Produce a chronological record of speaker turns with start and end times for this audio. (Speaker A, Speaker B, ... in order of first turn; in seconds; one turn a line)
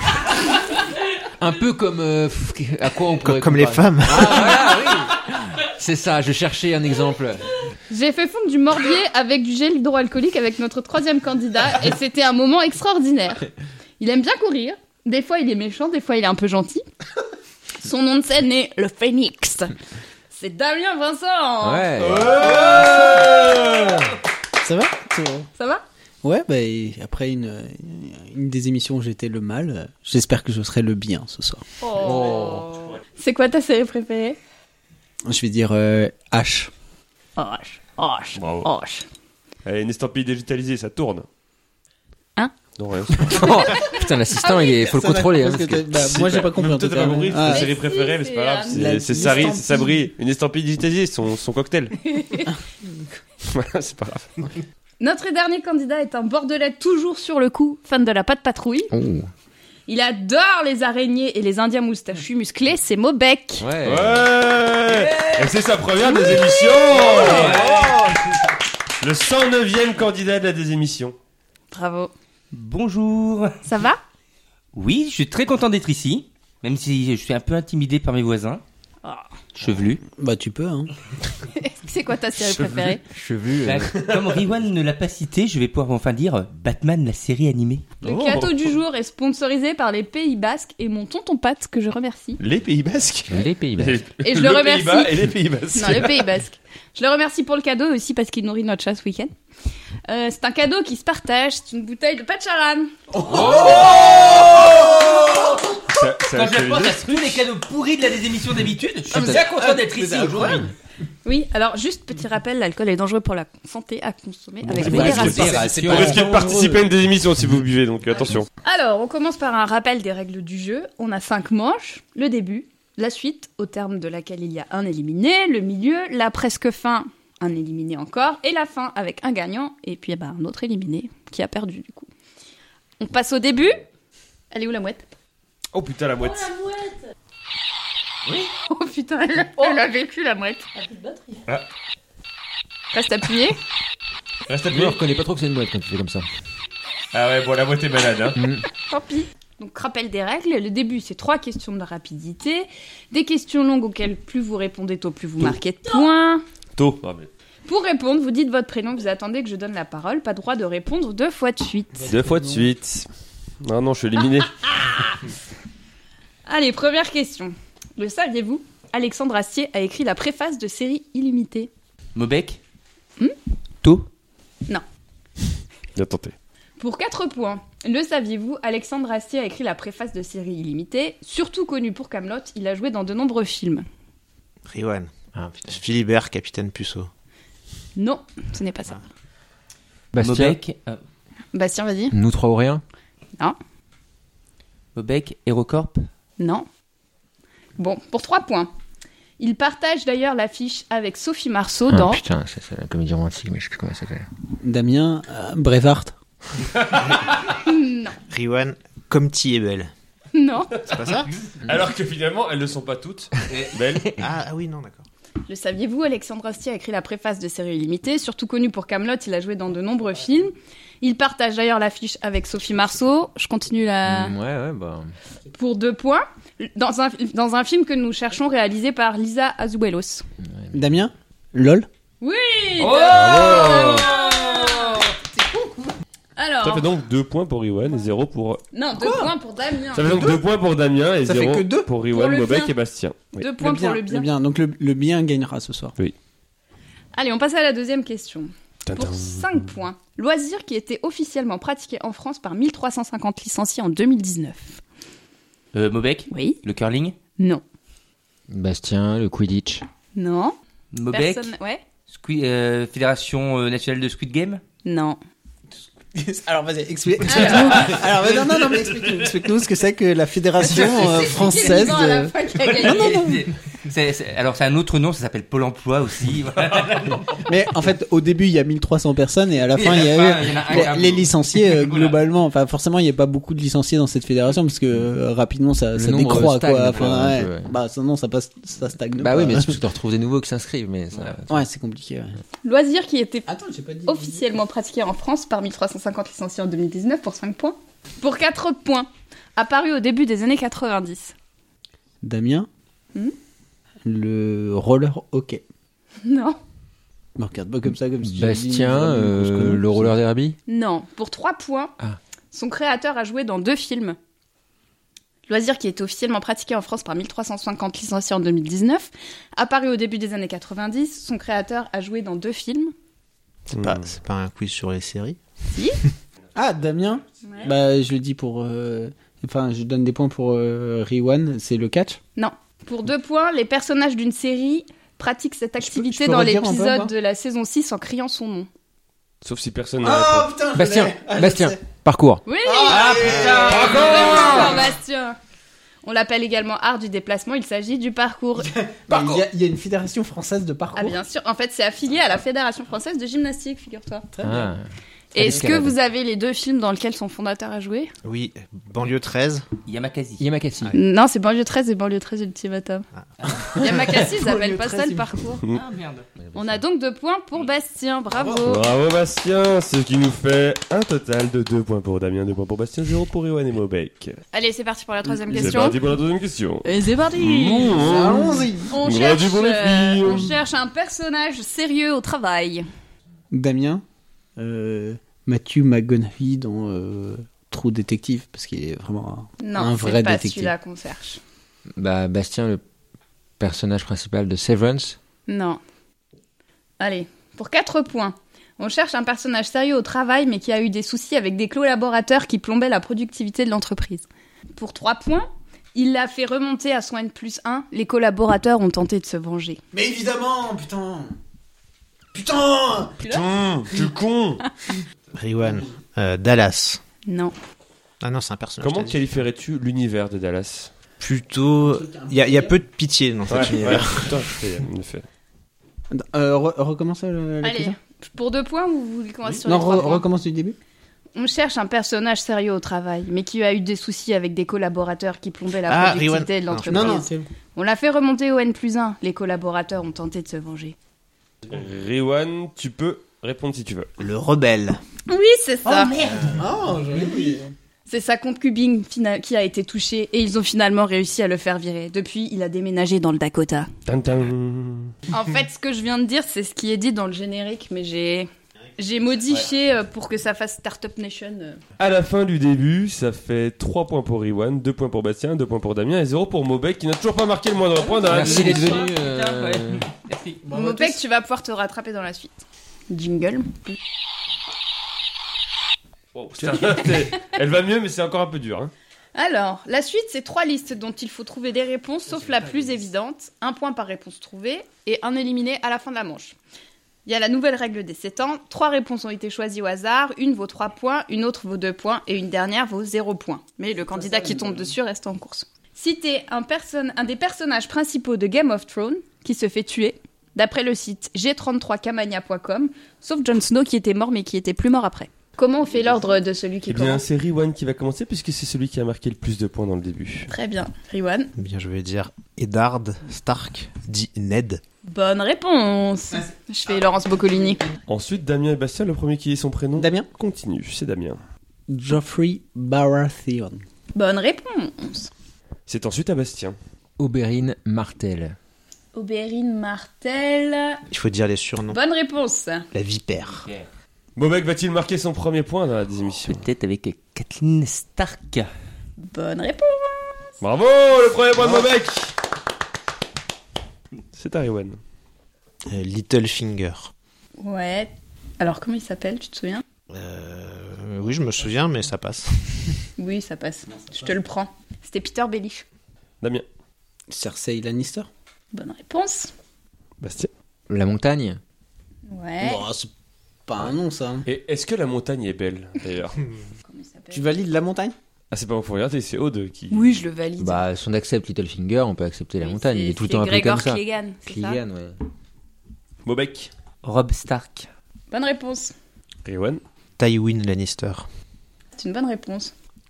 Speaker A: 1.4-7.5
Speaker B: 3.2-4.7
Speaker C: 7.9-13.5
Speaker C: 14.0-16.8
Speaker C: 17.8-19.7
Speaker C: 20.3-23.9
Speaker A: 21.6-22.4
Speaker D: 22.1-23.8
Speaker E: 22.8-23.8
Speaker E: 24.6-25.5
Speaker C: 25.6-25.8
Speaker E: 26.2-31.6
Speaker C: 31.8-34.4
Speaker E: 35.2-36.7
Speaker C: 37.4-39.0
Speaker D: 38.4-38.7
Speaker D: 39.6-41.2
Speaker D: 42.8-43.5
Speaker A: 43.2-46.2
Speaker C: 43.3-44.8
Speaker E: 44.8-47.7
Speaker D: 46.0-51.9
Speaker C: 47.4-49.5
Speaker E: 48.7-50.0
Speaker C: 52.0-52.5
Speaker D: 53.4-54.3
Speaker C: 55.0-58.9
Speaker A: 58.9-59.3
Speaker C: 59.9-63.7
Speaker A: 63.6-64.3
Speaker D: 63.8-68.2
Speaker C: 66.0-67.3
Speaker F: 66.9-68.2
Speaker E: 67.2-67.7
Speaker D: 69.0-71.2
Speaker C: 71.7-72.1
Speaker F: 72.5-73.6
Speaker C: 73.6-74.0
Speaker F: 74.7-78.6
Speaker F: 79.5-80.0
Speaker E: 80.1-80.9
Speaker C: 81.5-83.0
Speaker A: 83.1-83.9
Speaker F: 83.6-88.0
Speaker D: 83.9-84.4
Speaker C: 88.0-92.4
Speaker D: 88.0-88.7
Speaker D: 92.4-96.2
Speaker A: 93.3-94.0
Speaker C: 94.2-99.3
Speaker C: 100.1-102.9
Speaker E: 103.1-105.7
Speaker F: 103.2-105.6
Speaker D: 103.3-105.0
Speaker D: 105.9-107.3
Speaker F: 106.2-110.7
Speaker E: 109.1-110.7
Speaker C: 111.2-115.7
Speaker D: 114.7-118.5
Speaker F: 114.8-116.3
Speaker E: 114.9-116.9
Speaker C: 118.6-132.1
Speaker C: 133.0-133.8
Speaker C: 134.5-135.1
Speaker D: 135.7-136.5
Speaker C: 136.2-136.9
Speaker C: 138.3-141.4
Speaker C: 142.9-143.6
Speaker D: 144.5-145.0
Speaker A: 144.7-146.3
Speaker D: 147.1-148.4
Speaker A: 148.3-148.6
Speaker C: 148.8-156.4
Speaker D: 156.8-157.3
Speaker C: 157.6-162.1
Speaker E: 161.9-162.7
Speaker D: 162.1-163.1
Speaker D: 163.6-164.6
Speaker C: 166.4-171.7
Speaker F: 172.1-172.6
Speaker D: 175.9-176.3
Speaker C: 176.8-183.9
Speaker B: 184.7-185.1
Speaker A: 185.3-185.7
Speaker B: 185.6-187.1
Speaker C: 187.9-189.0
Speaker A: 190.1-190.6
Speaker F: 190.2-191.0
Speaker C: 191.5-192.1
Speaker A: 192.1-192.8
Speaker F: 194.9-196.1
Speaker C: 196.4-196.7
Speaker C: 197.8-198.7
Speaker C: 199.4-202.2
Speaker A: 201.9-204.3
Speaker E: 204.6-206.1
Speaker D: 206.7-207.3
Speaker C: 207.6-208.2
Speaker B: 208.3-209.9
Speaker C: 210.3-210.8
Speaker B: 210.9-211.3
Speaker D: 211.6-214.1
Speaker F: 213.5-213.8
Speaker B: 214.2-215.1
Speaker C: 215.5-224.3
Speaker A: 224.1-225.1
Speaker C: 225.5-230.2
Speaker E: 230.7-231.9
Speaker C: 232.2-235.1
Speaker D: 232.8-234.1
Speaker F: 232.8-235.1
Speaker C: 236.4-236.9
Speaker D: 236.6-238.6
Speaker C: 238.7-240.2
Speaker E: 239.0-239.3
Speaker D: 239.9-243.4
Speaker E: 240.0-240.4
Speaker E: 241.2-241.9
Speaker C: 242.1-242.7
Speaker C: 243.4-244.3
Speaker E: 243.6-245.9
Speaker C: 247.1-254.8
Speaker D: 248.9-249.6
Speaker F: 255.7-257.2
Speaker C: 256.3-256.6
Speaker C: 257.4-257.6
Speaker A: 258.5-259.8
Speaker C: 260.1-260.6
Speaker F: 260.9-261.5
Speaker C: 261.1-261.8
Speaker F: 262.1-264.6
Speaker C: 264.8-265.2
Speaker E: 266.0-273.4
Speaker C: 267.2-268.0
Speaker D: 267.8-269.3
Speaker C: 270.6-273.4
Speaker F: 271.2-271.9
Speaker F: 272.6-277.4
Speaker E: 277.4-289.8
Speaker F: 279.7-282.1
Speaker A: 285.9-287.7
Speaker A: 289.2-291.6
Speaker E: 291.5-292.4
Speaker C: 292.6-293.5
Speaker E: 293.5-294.5
Speaker C: 294.1-301.3
Speaker E: 302.2-302.7
Speaker E: 304.0-305.6
Speaker C: 306.2-306.6
Speaker E: 307.4-310.1
Speaker A: 308.2-310.6
Speaker C: 310.7-311.9
Speaker C: 312.5-314.2
Speaker C: 315.5-322.9
Speaker B: 323.7-325.4
Speaker D: 323.7-324.1
Speaker E: 326.5-332.2
Speaker C: 327.4-327.7
Speaker C: 332.4-338.7
Speaker E: 335.8-337.1
Speaker D: 339.4-340.5
Speaker E: 340.0-341.8
Speaker A: 340.8-342.4
Speaker C: 342.4-345.4
Speaker E: 342.6-344.7
Speaker F: 342.9-343.9
Speaker D: 343.1-344.8
Speaker C: 346.0-348.7
Speaker E: 348.6-351.2
Speaker C: 350.9-354.3
Speaker E: 354.3-354.8
Speaker A: 354.4-355.9
Speaker C: 355.3-358.1
Speaker B: 358.2-359.6
Speaker F: 359.9-360.4
Speaker A: 360.4-361.0
Speaker C: 360.9-363.0
Speaker E: 363.5-365.4
Speaker C: 363.8-365.6
Speaker F: 365.7-366.3
Speaker A: 366.4-366.8
Speaker C: 366.5-368.9
Speaker E: 368.4-368.8
Speaker D: 368.6-374.4
Speaker C: 374.5-376.0
Speaker E: 375.5-376.0
Speaker D: 375.5-376.9
Speaker C: 376.8-378.0
Speaker D: 377.4-380.6
Speaker E: 377.9-379.0
Speaker C: 378.9-382.9
Speaker E: 383.5-384.0
Speaker E: 384.6-390.7
Speaker C: 389.6-391.4
Speaker A: 392.0-392.8
Speaker A: 393.6-395.2
Speaker C: 395.5-395.8
Speaker C: 397.0-409.8
Speaker E: 409.9-411.4
Speaker E: 412.3-413.2
Speaker C: 413.2-413.6
Speaker D: 413.3-414.6
Speaker B: 415.4-417.0
Speaker C: 417.2-417.5
Speaker B: 418.2-419.4
Speaker D: 418.8-420.9
Speaker B: 421.2-424.6
Speaker E: 421.7-422.8
Speaker D: 423.5-425.2
Speaker E: 423.5-424.2
Speaker E: 426.1-428.0
Speaker C: 427.6-430.2
Speaker E: 429.6-430.8
Speaker C: 431.4-441.0
Speaker B: 435.9-437.2
Speaker E: 436.9-437.5
Speaker D: 441.7-444.1
Speaker B: 444.2-445.0
Speaker C: 445.3-446.2
Speaker F: 445.9-446.5
Speaker B: 446.2-446.7
Speaker E: 446.4-447.7
Speaker C: 447.2-447.5
Speaker C: 448.1-453.9
Speaker D: 454.1-455.1
Speaker C: 455.3-461.8
Speaker D: 462.0-469.0
Speaker C: 468.2-469.0
Speaker A: 468.2-470.1
Speaker F: 468.2-470.6
Speaker E: 470.6-471.2
Speaker C: 470.7-472.5
Speaker C: 473.1-474.0
Speaker D: 476.3-478.9
Speaker C: 476.7-477.4
Speaker C: 479.4-486.5
Speaker C: 487.2-507.2
Speaker E: 494.0-494.9
Speaker D: 506.9-510.5
Speaker C: 510.5-511.5
Speaker B: 511.6-514.8
Speaker C: 515.0-517.9
Speaker D: 518.1-521.4
Speaker E: 520.0-520.3
Speaker E: 521.9-523.8
Speaker C: 524.1-525.3
Speaker D: 525.9-526.8
Speaker A: 527.2-528.5
Speaker C: 529.1-531.0
Speaker B: 531.1-532.0
Speaker C: 531.9-532.9
Speaker B: 532.9-533.7
Speaker F: 533.6-533.9
Speaker D: 534.4-536.6
Speaker F: 536.4-538.7
Speaker C: 539.2-540.5
Speaker D: 540.6-542.3
Speaker D: 544.4-545.0
Speaker B: 545.9-547.1
Speaker C: 547.6-549.8
Speaker B: 550.1-553.0
Speaker C: 553.2-555.9
Speaker E: 553.9-554.3
Speaker E: 557.3-558.3
Speaker C: 558.7-559.5
Speaker D: 560.2-560.5
Speaker A: 560.9-561.6
Speaker C: 562.3-562.9
Speaker E: 562.6-563.1
Speaker E: 563.7-564.5
Speaker D: 564.5-566.4
Speaker C: 566.9-567.5
Speaker E: 567.3-568.1
Speaker D: 568.5-570.1
Speaker C: 569.9-570.8
Speaker A: 570.6-575.1
Speaker C: 572.6-574.8
Speaker D: 576.2-576.7
Speaker F: 577.0-577.9
Speaker C: 578.3-578.9
Speaker D: 579.4-579.8
Speaker B: 580.2-581.3
Speaker C: 581.9-582.7